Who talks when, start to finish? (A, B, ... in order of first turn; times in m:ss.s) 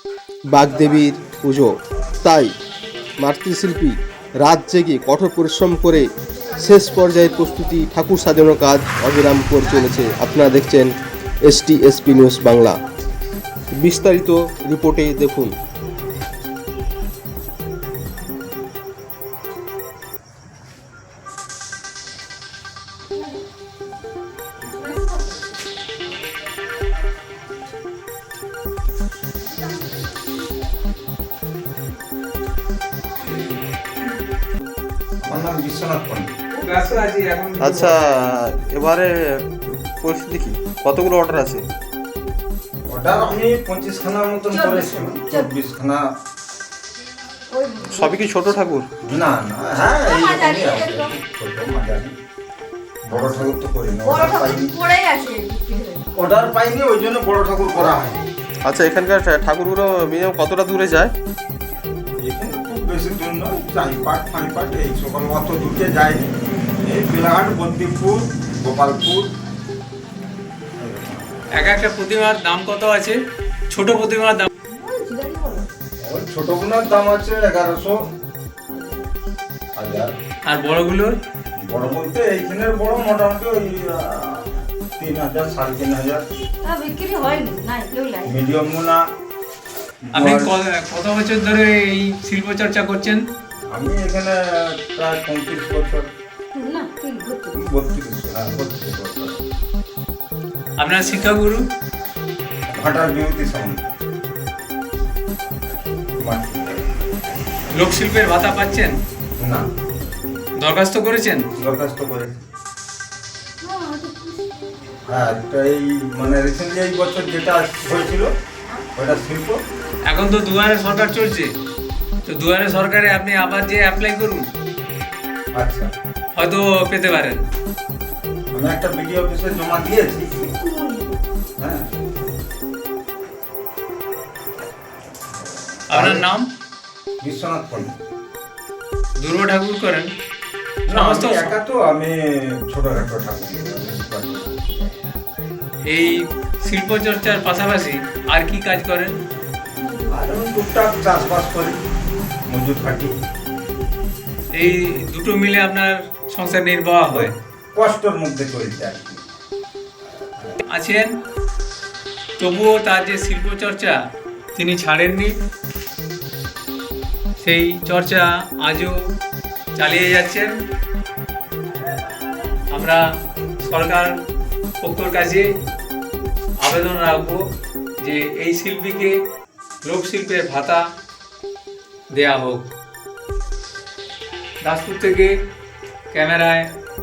0:00.5-0:01.7 A
0:02.2-0:02.5 A
0:03.2-0:12.8 A
0:13.8-0:15.5 A
0:24.6-0:25.4 B
0:35.2-0:36.3 C
0:36.6-0:38.4 D
0:37.6-0:41.6 A
0:42.9-0:46.0 C
0:44.5-0:45.5 B
0:47.5-0:48.3 B
0:47.9-0:48.9 A
0:49.0-0:52.1 C
0:49.7-0:51.2 B
0:53.0-0:54.8 C
0:54.0-0:56.1 B
0:56.1-0:58.2 C
0:57.7-0:58.3 B
0:58.6-1:01.1 A
1:02.2-1:09.3 C
1:10.8-1:11.2 C
1:11.5-1:14.5 D
1:14.7-1:15.7 B
1:16.0-1:18.0 C
1:18.7-1:19.1 B
1:19.7-1:20.1 C
1:20.4-1:21.2 D
1:21.6-1:26.2 C
1:26.6-1:28.3 B
1:28.2-1:29.0 C
1:30.0-1:30.5 C
1:30.1-1:33.2 D
1:33.7-1:36.1 C
1:36.5-1:37.6 B
1:37.5-1:39.4 C
1:40.8-1:41.6 D
1:42.7-1:43.9 C
1:46.2-1:46.8 C
1:47.7-1:49.0 D
1:49.4-1:49.6 C
1:50.6-1:51.5 D
1:51.6-1:52.4 C
1:53.6-1:54.7 B
1:55.1-1:58.3 C
1:58.9-1:59.6 C
2:00.0-2:01.5 D
2:02.2-2:04.5 D
2:05.5-2:05.9 C
2:06.4-2:07.4 D
2:08.5-2:10.4 C
2:10.3-2:11.2 B
2:11.6-2:11.9 C
2:15.9-2:16.5 D
2:15.9-2:16.3 C
2:17.2-2:18.0 C
2:19.2-2:20.1 D
2:20.9-2:24.8 C
2:20.9-2:21.5 D
2:25.8-2:29.2 D
2:30.0-2:31.8 C
2:32.5-2:33.1 C
2:34.5-2:37.3 D
2:37.1-2:39.2 C
2:40.6-2:41.1 D
2:42.4-2:44.0 D
2:44.5-2:45.3 D
2:47.4-2:49.0 D
2:49.8-2:50.6 D
2:52.7-2:53.0 D
2:53.6-2:54.2 D
2:54.8-2:55.5 D
2:56.6-2:57.4 D
2:58.0-2:59.2 D
2:59.8-3:00.8 D
3:02.1-3:02.7 D
3:04.6-3:05.4 D
3:06.1-3:06.7 D